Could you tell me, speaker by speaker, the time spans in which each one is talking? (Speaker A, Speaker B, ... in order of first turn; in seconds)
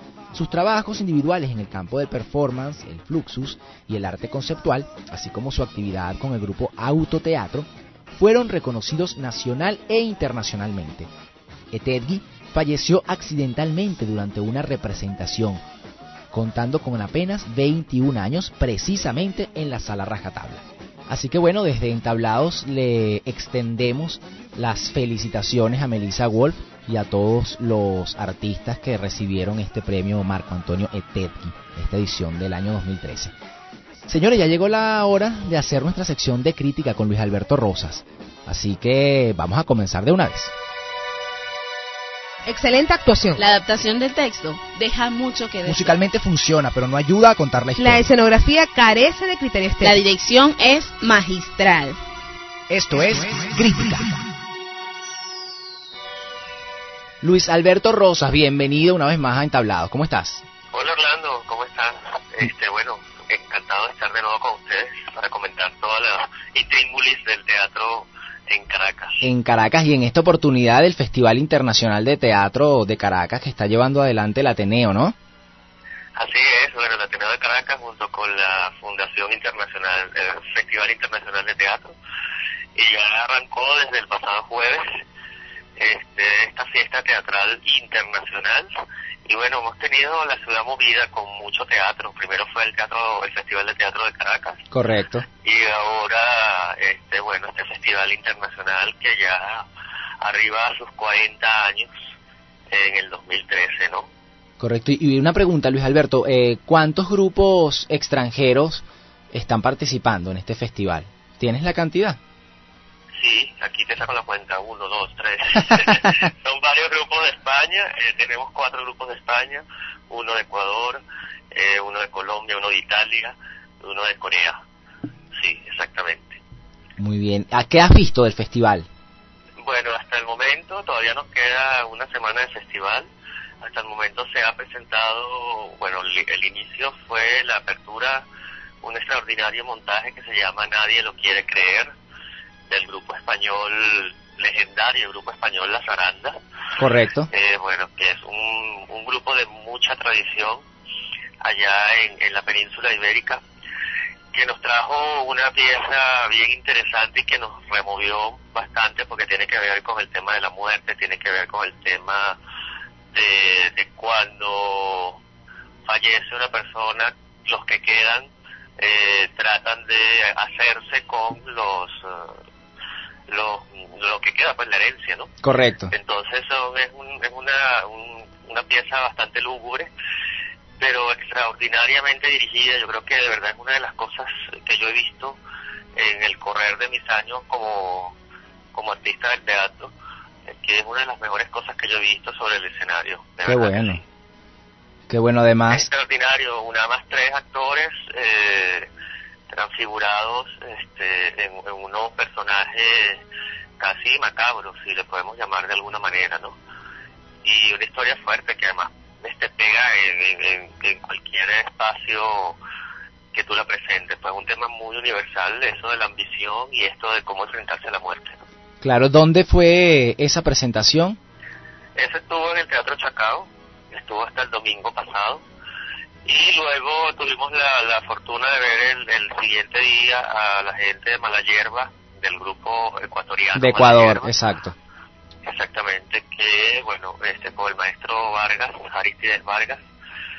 Speaker A: 0.3-11.1, 11.7-15.6, 16.3-33.3, 34.1-40.5, 45.6-48.1, 52.7-54.1, 57.2-60.4, 69.2-75.1, 94.7-95.2, 104.6-112.2, 127.0-128.9, 146.8-147.3, 175.4-175.9, 193.4-194.0, 195.1-195.9, 218.8-221.2, 233.6-234.7
Speaker B: 42.5-43.4, 47.8-50.0
Speaker C: 43.3-45.9, 47.8-48.1, 49.8-52.0
Speaker D: 60.7-69.2, 76.2-81.9, 82.7-84.9, 85.8-88.7, 89.2-94.6, 95.4-99.6, 100.2-101.9, 102.7-104.1, 113.2-124.6, 125.3-126.4, 129.6-133.1, 133.6-138.2, 138.8-141.9, 142.7-146.3, 147.3-150.6, 151.4-153.4, 154.3-162.4, 163.1-165.2, 165.9-172.4, 173.3-175.3, 175.8-179.9, 180.8-185.4, 185.9-188.1, 188.7-189.9, 190.5-194.0, 195.7-198.9, 199.5-203.2, 203.8-206.6, 207.4-212.6, 213.3-218.4, 221.9-225.4, 226.2-234.3, 235.4-239.8